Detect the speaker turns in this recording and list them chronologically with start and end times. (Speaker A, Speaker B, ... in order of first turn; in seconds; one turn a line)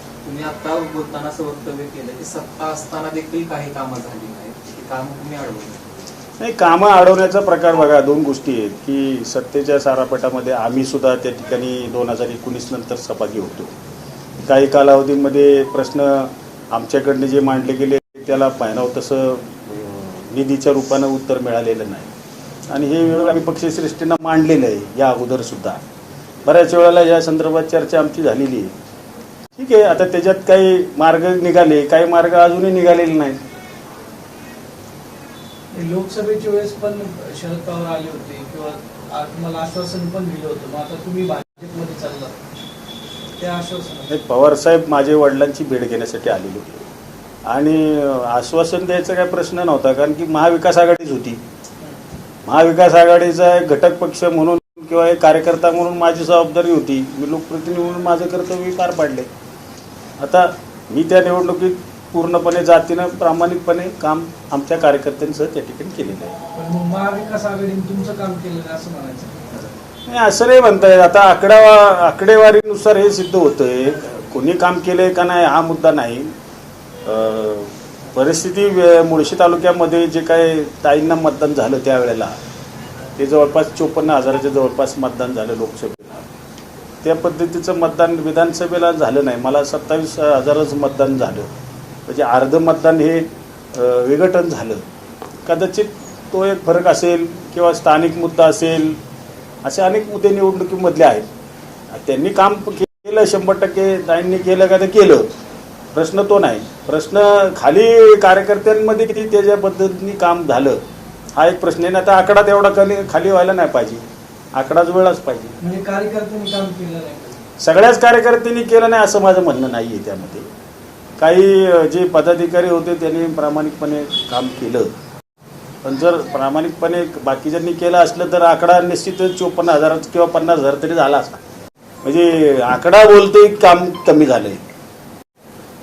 Speaker A: 0.2-5.9
Speaker B: 6.4-13.7
Speaker B: 14.4-22.1
Speaker B: 22.7-25.8
Speaker B: 26.4-28.7
Speaker B: 29.6-33.4
Speaker C: 35.7-42.4
Speaker C: 43.4-44.1
Speaker B: 44.1-46.9
Speaker B: 47.5-51.4
Speaker B: 52.4-59.3
Speaker B: 60.2-66.4
Speaker C: 66.5-69.7
Speaker B: 70.0-76.3
Speaker B: 77.0-82.3
Speaker B: 83.2-86.2
Speaker B: 87.0-91.5
Speaker B: 92.0-94.8
Speaker B: 95.4-99.0
Speaker B: 99.6-101.3
Speaker B: 101.9-105.3
Speaker B: 105.9-110.8
Speaker B: 111.3-115.6
Speaker C: 115.6-117.4
Speaker B: 117.6-120.5
Speaker B: 121.2-124.9
Speaker B: 125.8-131.4
Speaker B: 132.0-134.6